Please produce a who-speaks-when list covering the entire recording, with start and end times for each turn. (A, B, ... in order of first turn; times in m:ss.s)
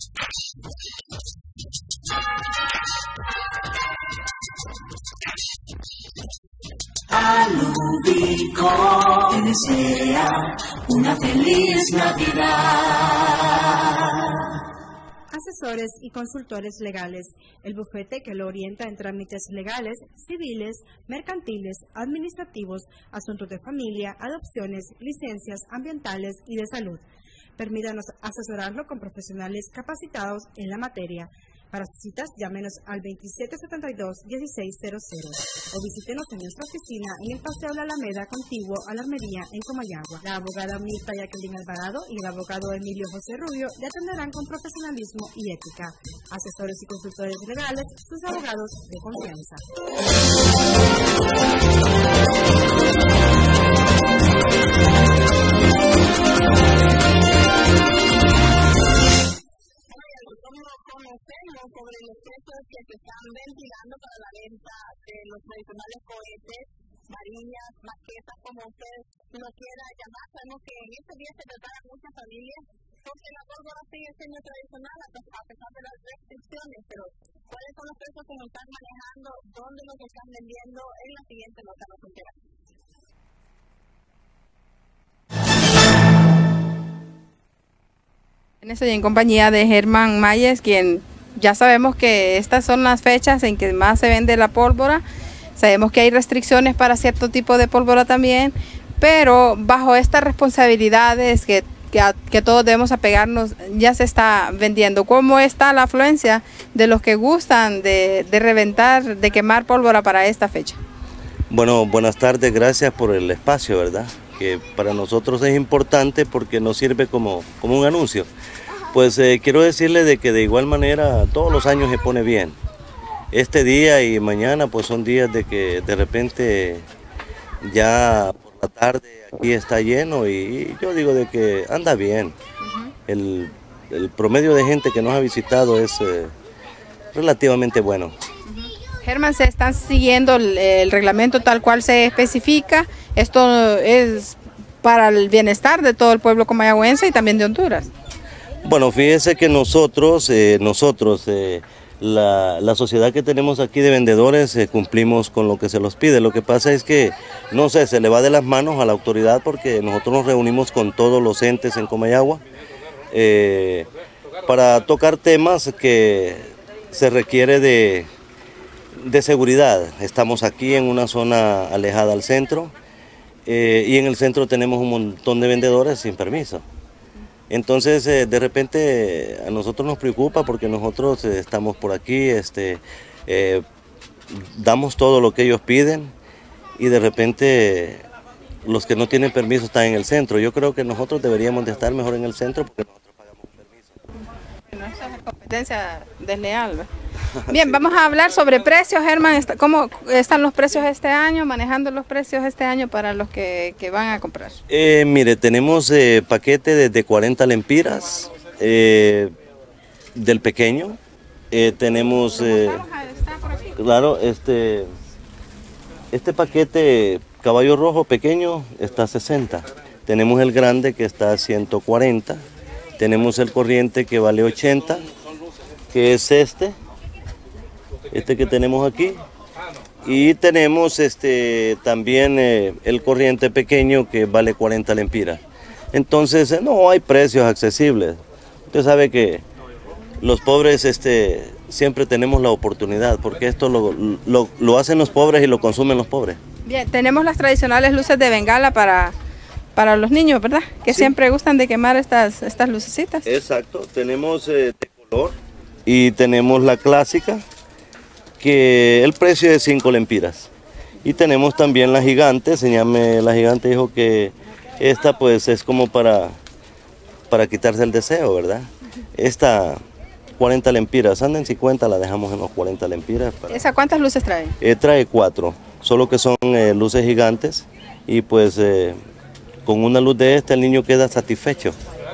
0:07.1-0:13.6 A
0:15.3-0:27.0 B
0:27.6-0:49.6 B
0:59.9-1:22.4 C
1:28.6-1:35.0 D
1:35.6-1:50.8 D
1:51.5-1:58.3 E
1:58.9-2:02.6 E
2:03.3-2:06.8 E
2:07.6-2:12.3 E
2:12.6-2:12.9 D
2:13.1-2:16.3 E
2:17.1-2:18.1 E
2:18.4-2:27.9 D
2:28.6-2:42.4 E
2:43.1-2:43.9 E
2:44.4-2:48.1 E
2:48.9-2:52.7 E
2:53.4-2:56.6 E
2:57.5-3:03.6 E
3:04.3-3:06.1 E
3:06.8-3:08.0 E
3:08.6-3:14.0 E
3:14.7-3:16.9 D
3:17.4-3:17.8 E
3:17.5-3:24.6 D
3:24.7-3:29.3 E
3:30.1-3:31.0 E
3:31.5-3:32.8 E
3:32.4-3:33.7 D
3:33.7-3:34.9 E
3:36.1-3:42.4 E
3:43.0-3:45.0 E
3:45.9-3:46.8 E
3:48.1-3:49.2 E
3:50.0-3:55.4 E
3:55.9-3:59.4 E
4:00.2-4:06.4 E
4:06.6-4:09.1 D
4:09.8-4:13.2 D
4:13.2-4:17.4 E
4:18.4-4:20.5 E
4:21.0-4:26.4 E
4:27.3-4:29.8 E
4:30.4-4:33.6 E
4:33.5-4:34.5 D
4:34.6-4:39.0 E
4:39.6-4:41.8 E